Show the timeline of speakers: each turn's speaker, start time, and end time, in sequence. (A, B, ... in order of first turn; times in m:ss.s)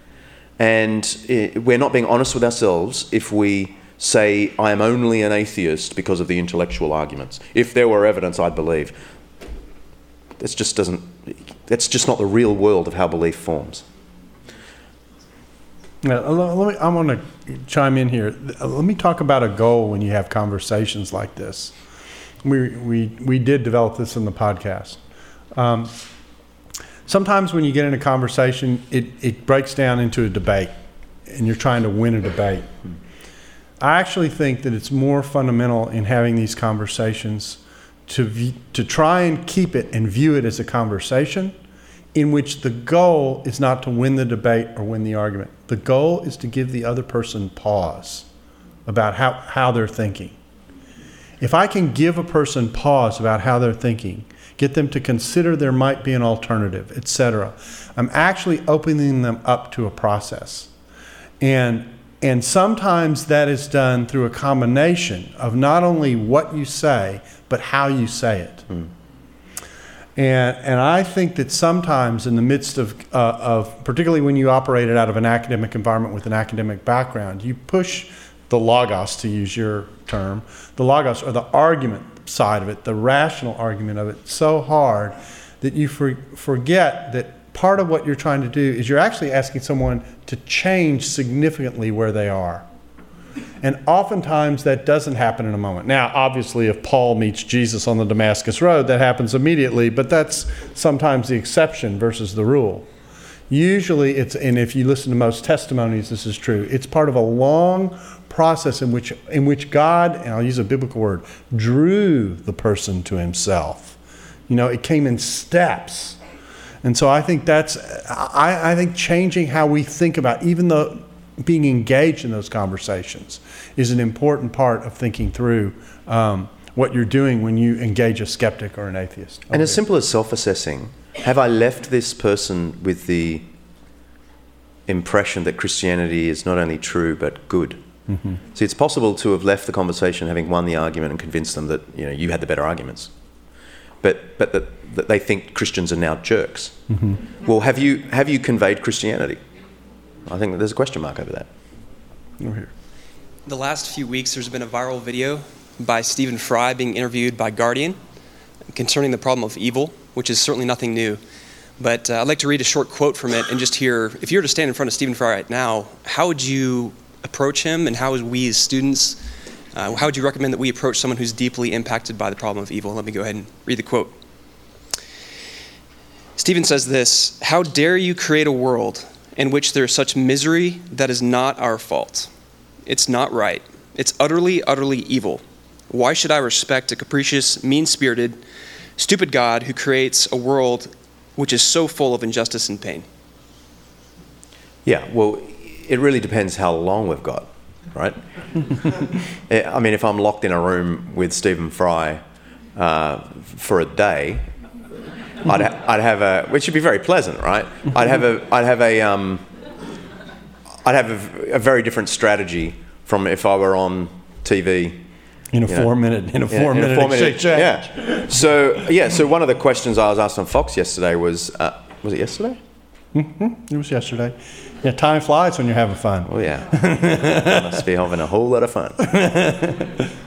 0:00.6-0:09.0 A
0:10.4-0:13.8 A
0:16.0-0:21.8 B
0:22.4-0:25.0 B
0:25.6-0:25.9 B
0:27.1-0:30.7 B
0:31.3-0:32.7 B
0:33.8-0:41.5 B
0:42.1-0:48.3 B
0:48.9-0:50.4 B
0:51.4-1:00.7 B
1:01.4-1:08.7 B
1:10.2-1:32.7 B
1:33.6-1:42.9 B
1:43.5-1:54.0 B
1:54.5-1:56.2 B
1:56.8-2:09.8 B
2:09.5-2:13.5 A
2:14.9-2:17.8 A
2:18.1-2:18.4 B
2:18.5-2:23.1 A
2:24.0-2:26.8 A
2:26.9-2:27.2 B
2:27.4-2:29.4 A
2:30.3-2:31.5 A
2:32.4-2:32.7 B
2:33.5-2:38.0 C
2:38.7-2:41.2 C
2:41.8-2:49.2 C
2:49.7-2:54.1 C
2:56.4-3:02.3 C
3:02.9-3:08.4 C
3:09.0-3:13.1 C
3:14.8-3:18.2 A
3:19.5-3:22.2 A
3:22.8-3:24.5 A
3:25.4-3:29.4 A
3:30.8-3:35.0 A
3:35.5-3:38.3 B
3:36.5-3:42.6 A
3:43.1-3:47.6 B
3:46.3-3:49.1 A
3:49.1-3:49.9 B